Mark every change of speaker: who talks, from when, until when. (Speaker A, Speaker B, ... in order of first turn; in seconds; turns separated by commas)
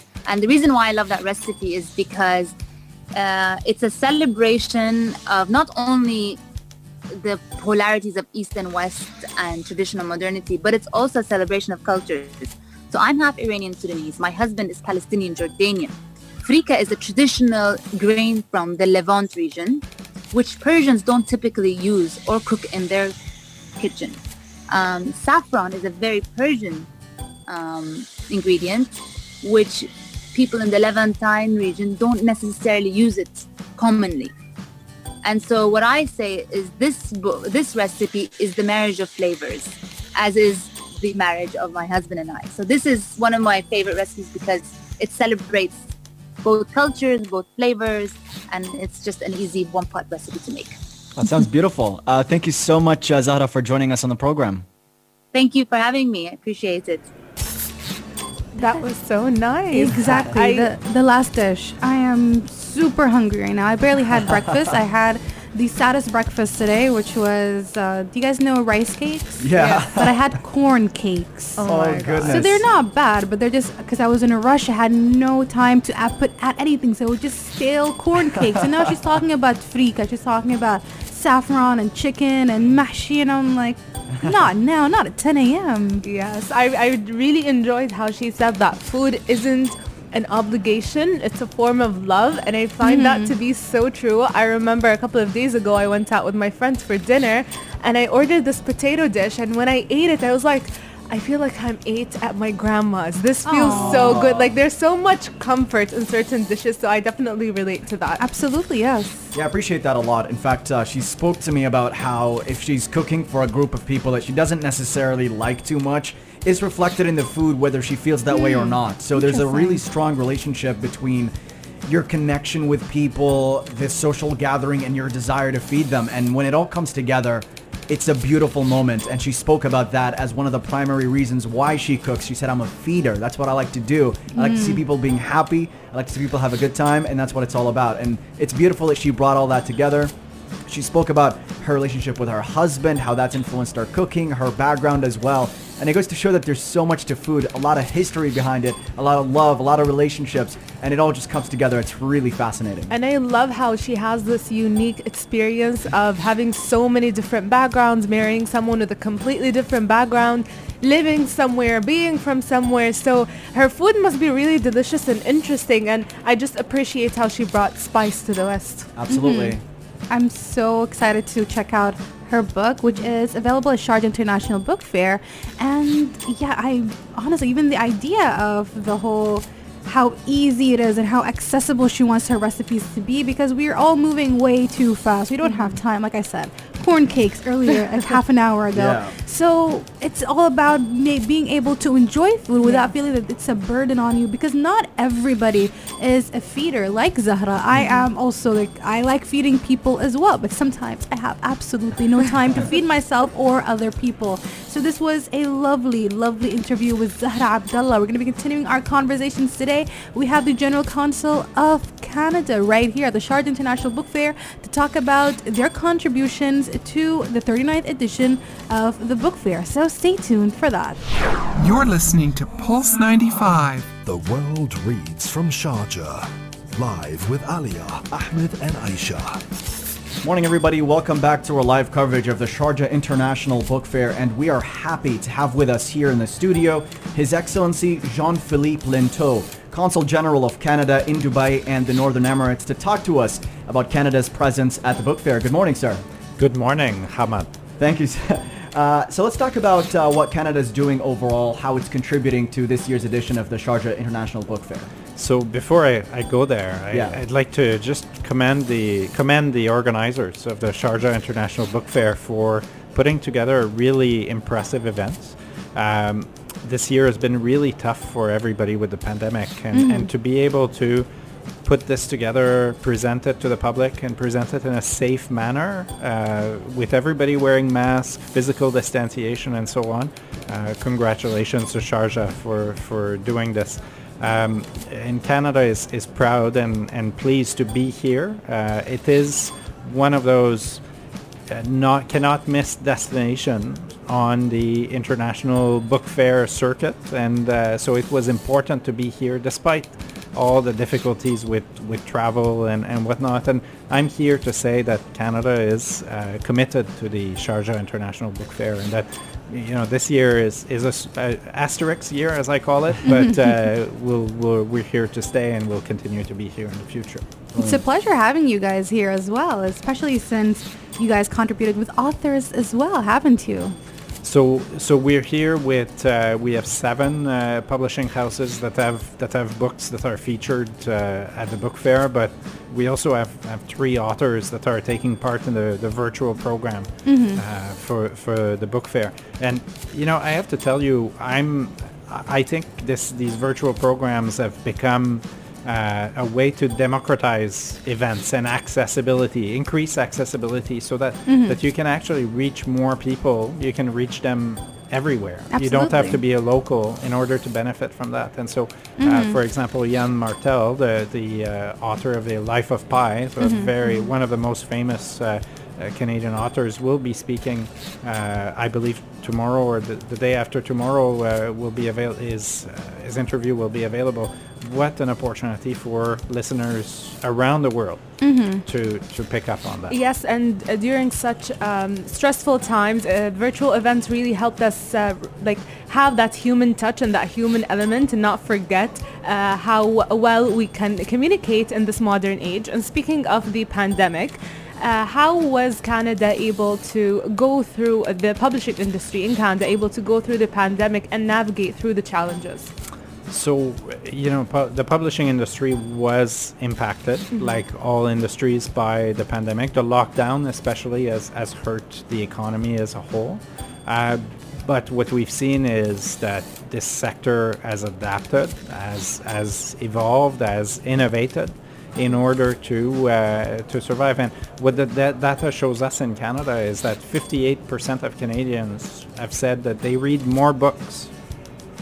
Speaker A: 0.3-2.5, Speaker A: 3.1-6.4, Speaker A: 7.1-23.1, Speaker A: 23.8-24.2, Speaker A: 24.7-26.9, Speaker A: 27.5-34.3, Speaker A: 35.2-45.9, Speaker A: 46.4-50.7, Speaker B: 51.2-54.6, Speaker A: 55.3-57.1, Speaker C: 58.5-60.7, Speaker D: 59.7-86.0, Speaker B: 69.4-70.4, Speaker C: 69.5-69.8, Speaker C: 71.6-72.5, Speaker B: 71.6-72.6, Speaker C: 86.0-108.2, Speaker D: 92.8-93.3, Speaker D: 103.4-104.2, Speaker B: 103.6-104.5, Speaker D: 108.2-109.3, Speaker B: 109.3-121.3, Speaker D: 118.3-119.8, Speaker B: 121.8-140.1, Speaker D: 134.3-134.8, Speaker B: 140.7-152.9, Speaker C: 152.9-168.9, Speaker B: 168.9-169.6, Speaker D: 169.1-169.6, Speaker D: 170.1-221.0, Speaker C: 185.4-185.8, Speaker B: 188.7-189.2, Speaker C: 192.6-192.9, Speaker E: 221.6-223.8, Speaker F: 221.6-222.0, Speaker G: 224.0-229.4, Speaker B: 230.2-246.0, Speaker F: 246.4-247.5, Speaker B: 247.8-254.9, Speaker F: 255.2-271.1, Speaker B: 256.9-257.2, Speaker D: 269.7-270.1, Speaker F: 271.6-290.8, Speaker F: 291.5-317.3, Speaker B: 317.6-317.8, Speaker D: 317.6-323.8, Speaker F: 324.2-379.9, Speaker D: 337.1-337.4, Speaker D: 351.3-351.6, Speaker D: 355.5-356.2, Speaker D: 359.0-359.4, Speaker D: 363.4-364.1, Speaker D: 378.2-378.6, Speaker C: 379.9-402.7, Speaker F: 403.3-431.1, Speaker C: 407.3-407.6